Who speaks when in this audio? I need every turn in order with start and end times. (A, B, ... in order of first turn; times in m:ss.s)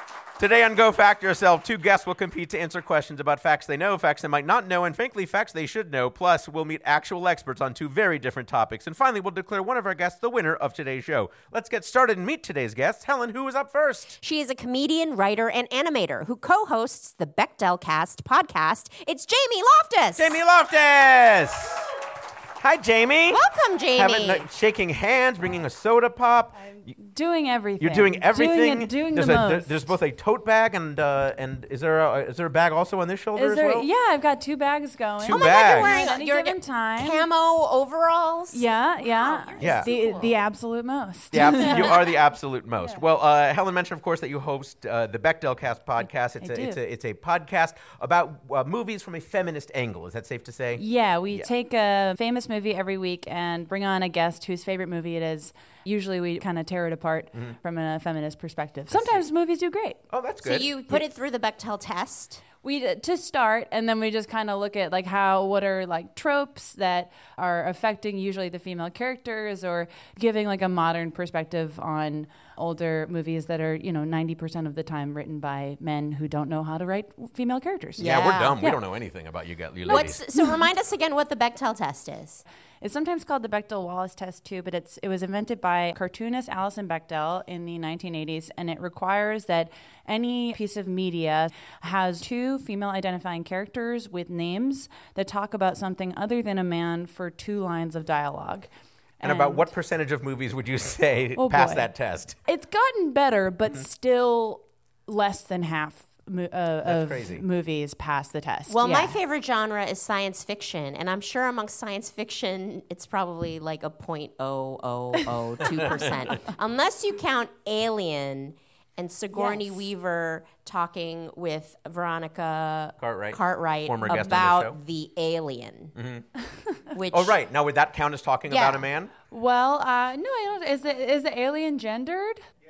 0:00.4-0:14.2 A
0:14.2-0:20.4 B
0:20.2-0:21.9 A
0:22.6-0:23.4 A
0:23.3-0:24.5 B
0:24.0-0:26.9 A
0:26.6-0:29.9 C
0:27.8-0:33.9 A
0:33.4-0:37.3 C
0:35.2-0:36.1 A
0:35.3-0:40.4 B
0:38.5-0:41.9 C
0:39.6-0:39.9 A
0:41.3-0:51.5 A
0:41.5-0:41.9 B
0:46.4-0:46.8 C
0:50.8-1:00.0 C
0:58.9-0:59.2 A
1:00.1-1:01.0 A
1:00.4-1:02.4 B
1:02.6-1:18.8 C
1:18.0-1:20.2 A
1:18.0-1:18.6 B
1:19.9-1:20.6 C
1:19.9-1:22.4 B
1:22.8-1:38.7 C
1:39.2-1:39.7 C
1:39.2-1:42.4 A
1:41.4-1:41.9 C
1:42.5-1:49.2 C
1:46.8-1:47.5 A
1:48.7-2:05.9 B
1:55.7-1:56.3 A
1:59.3-1:59.8 C
2:03.0-2:04.8 A
2:06.0-2:06.2 A
2:06.9-2:07.4 B
2:07.1-2:09.1 A
2:08.5-2:08.9 B
2:09.3-2:12.4 C